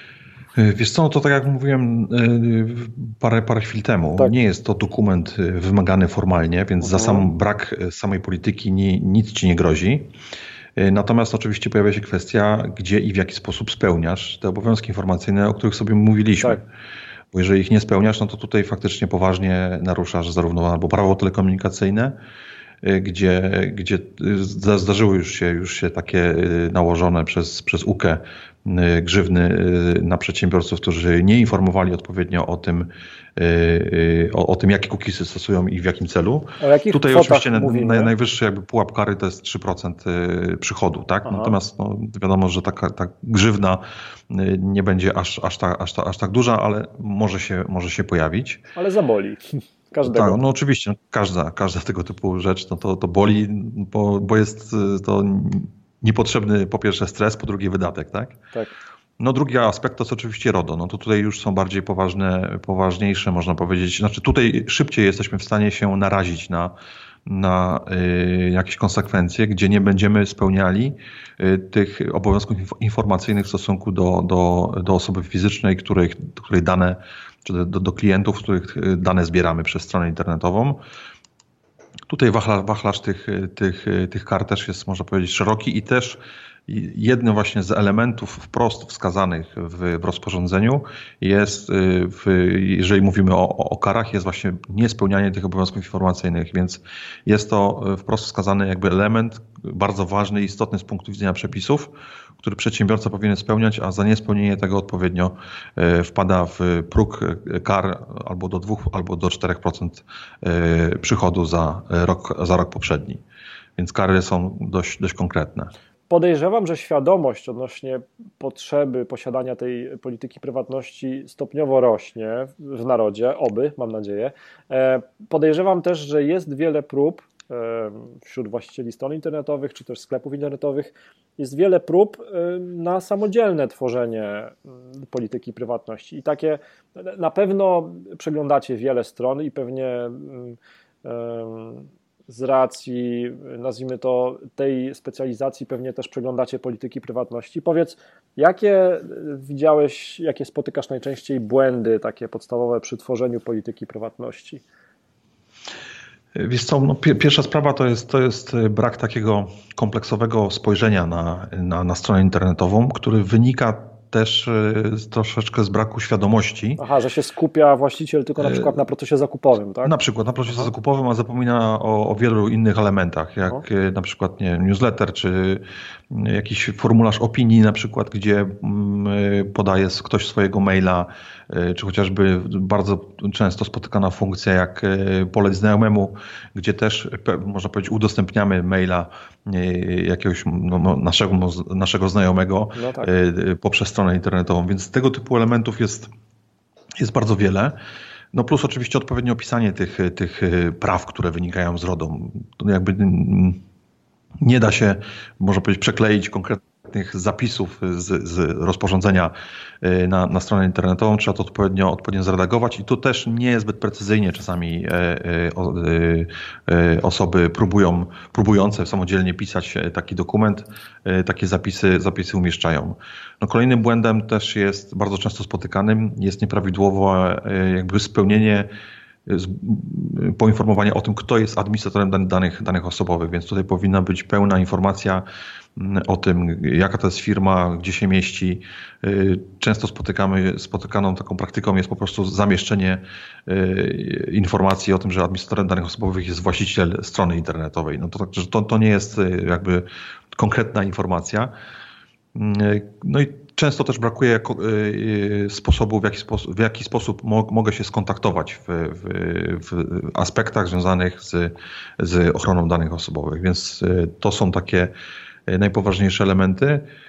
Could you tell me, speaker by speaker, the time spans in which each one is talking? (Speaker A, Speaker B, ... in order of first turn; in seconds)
Speaker A: 0.6-10.1, 10.8-16.6, 17.3-22.1, 22.8-48.6, 50.0-58.4, 59.2-66.7, 67.3-80.8, 82.1-113.2, 113.8-115.7, 156.4-166.8, 168.4-168.8, 169.8-196.1, 197.0-197.8, 198.3-203.6, 204.4-228.7, 229.3-235.2, 235.8-251.5, 252.3-264.9, 265.5-266.9
Speaker B: 6.8-7.3, 36.6-38.1, 41.3-41.6, 48.8-50.4, 116.1-154.6, 166.8-169.9, 192.8-193.1